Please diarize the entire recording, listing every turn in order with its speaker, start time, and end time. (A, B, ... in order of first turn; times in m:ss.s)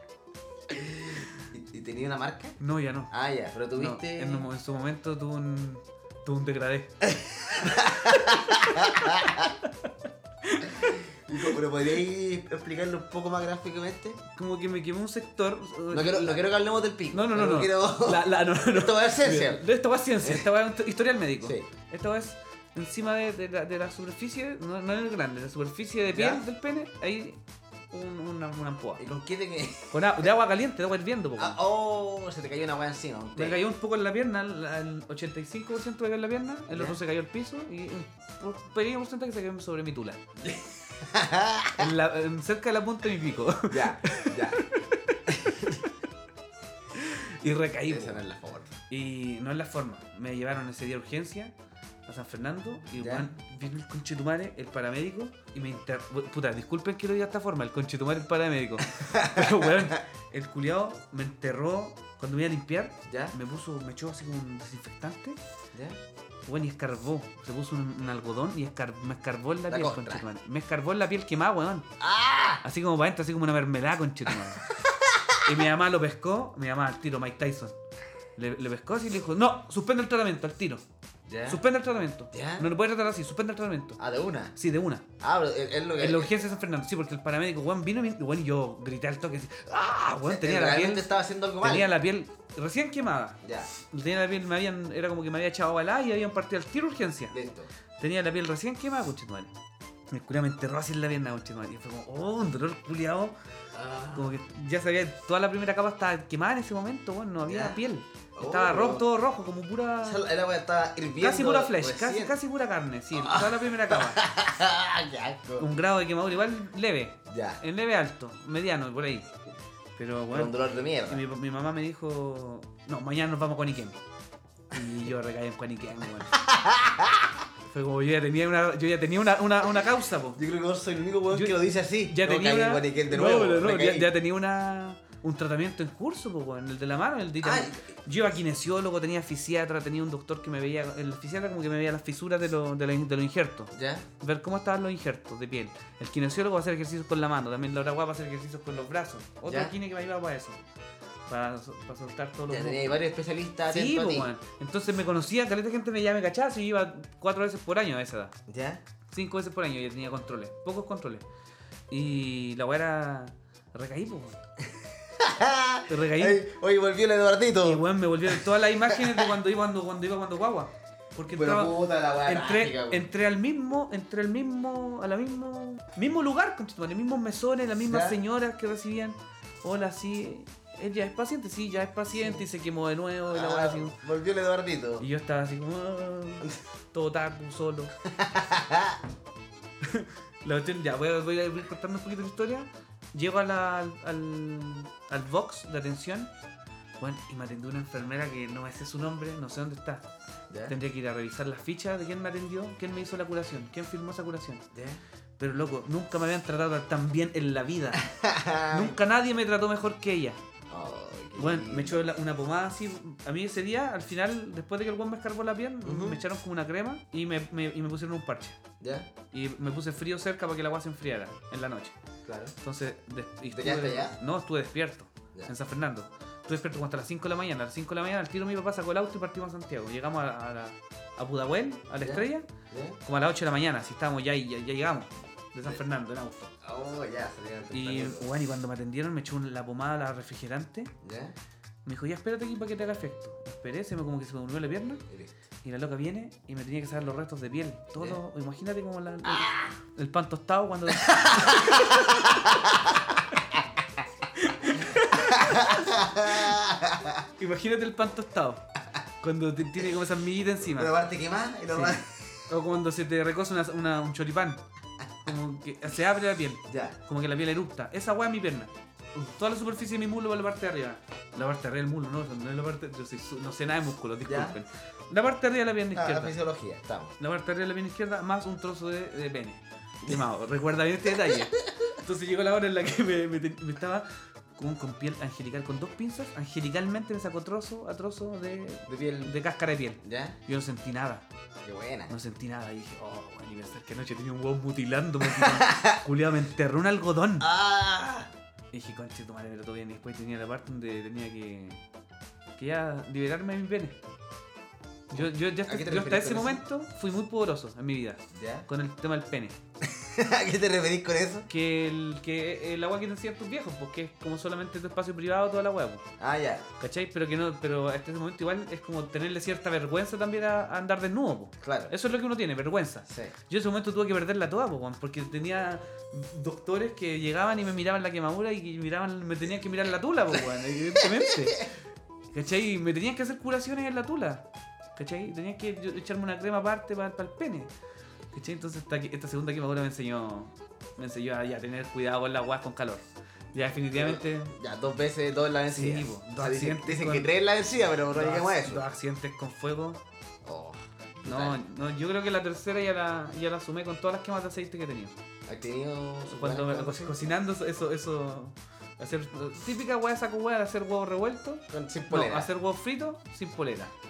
0:00.7-0:02.6 A
0:02.6-0:03.1 B
0:03.1-0:04.5 A
0:03.8-0:06.9 B
0:07.0-0:09.5 A
0:07.7-0:09.9 B
0:10.4-0:11.6 B
0:10.8-0:14.2 A
0:14.3-0:16.5 B
0:15.9-0:19.6 A
0:17.1-0:27.4 B
0:21.4-0:21.7 A
0:26.1-0:26.4 A
0:27.9-0:29.0 B
0:29.0-0:30.3 A
0:29.9-0:31.6 B
0:31.4-0:33.7 A
0:33.4-0:40.2 B
0:36.7-0:37.0 A
0:40.4-0:41.9 A
0:41.8-0:45.9 B
0:43.7-0:44.6 A
0:45.3-0:45.8 A
0:46.9-0:48.2 B
0:47.9-0:48.8 A
0:48.9-0:51.5 B
0:52.1-1:05.4 B
0:52.9-0:53.3 A
0:59.0-0:59.9 A
1:03.1-1:03.4 A
1:05.7-1:06.0 A
1:06.5-1:11.9 B
1:09.7-1:10.2 A
1:12.0-1:12.6 A
1:12.6-1:14.8 B
1:14.3-1:15.5 A
1:15.4-1:17.8 B
1:18.4-1:20.8 B
1:21.3-1:21.6 A
1:21.5-1:24.0 B
1:22.3-1:22.7 A
1:24.0-1:24.6 A
1:24.6-1:25.1 B
1:25.2-1:26.3 A
1:26.0-1:31.1 B
1:30.3-1:31.9 A
1:31.6-1:37.4 B
1:33.4-1:33.7 A
1:37.3-1:37.7 A
1:38.0-1:39.5 B
1:40.1-1:43.4 B
1:43.7-1:44.4 A
1:44.1-1:50.2 B
1:47.4-1:47.8 A
1:48.4-1:49.1 A
1:50.0-1:52.4 A
1:51.2-1:54.2 B
1:53.1-1:55.7 A
1:55.6-1:59.3 B
1:57.3-1:57.6 A
2:00.0-2:04.0 B
2:00.3-2:01.2 A
2:04.7-2:06.4 B
2:06.3-2:07.4 A
2:07.7-2:10.4 B
2:10.4-2:14.1 A
2:11.3-2:30.6 B
2:17.4-2:17.9 A
2:23.7-2:24.1 A
2:29.4-2:29.8 A
2:31.3-2:33.0 B
2:32.5-2:34.3 A
2:33.7-2:38.4 B
2:38.5-2:38.8 A
2:39.1-2:41.3 B
2:41.9-2:44.4 B
2:45.1-2:49.3 A
2:45.9-2:46.4 B
2:47.6-3:04.0 B
2:51.3-2:53.1 A
2:57.8-2:58.2 A
3:02.1-3:02.4 A
3:03.3-3:05.0 A
3:05.0-3:07.9 B
3:08.1-3:09.0 A
3:09.8-3:16.3 B
3:17.0-3:20.0 B
3:20.5-3:20.8 A
3:20.7-3:24.6 B
3:24.7-3:25.0 A
3:25.4-3:28.1 B
3:28.0-3:29.0 A
3:28.7-3:30.4 B
3:30.7-3:32.0 A
3:31.4-3:38.6 B
3:35.8-3:36.2 A
3:38.8-3:39.1 A
3:39.3-3:42.0 B
3:42.2-3:42.5 A
3:42.6-3:52.5 B
3:43.5-3:44.2 A
3:52.0-3:53.0 A
3:53.0-3:56.5 B
3:56.6-3:58.3 A
3:57.7-4:00.9 B
4:01.0-4:01.4 A
4:01.9-4:05.0 B
4:05.6-4:12.5 B
4:09.3-4:09.7 A
4:10.9-4:13.6 A
4:14.3-4:16.6 B
4:15.0-4:17.2 A
4:17.4-4:18.6 B
4:19.2-4:20.9 B
4:20.7-4:22.4 A
4:21.7-4:24.6 B
4:25.2-4:28.7 B
4:26.7-4:27.0 A
4:29.4-4:36.4 B
4:34.2-4:34.6 A
4:35.9-4:37.1 A
4:37.2-4:51.3 B
4:41.1-4:41.6 A
4:48.9-4:49.4 A
4:50.0-4:50.4 A
4:51.6-4:52.1 A
4:52.1-4:57.5 B
4:55.2-4:56.0 A
4:57.4-4:58.3 A
4:58.7-5:01.8 B
5:02.6-5:04.0 B
5:05.1-5:06.6 A
5:05.1-5:09.6 B
5:08.3-5:08.7 A
5:09.8-5:11.5 A
5:11.5-5:16.0 B
5:16.2-5:16.7 A
5:16.8-5:31.7 B
5:21.6-5:21.9 A
5:23.1-5:23.4 A
5:31.0-5:31.7 A
5:32.3-5:37.7 B
5:38.3-5:44.6 B
5:43.7-5:48.9 A
5:45.7-5:47.3 B
5:48.1-5:50.0 B
5:50.4-5:51.6 A
5:51.2-5:55.2 B
5:55.5-5:57.3 A
5:56.3-6:03.9 B
6:01.7-6:02.5 A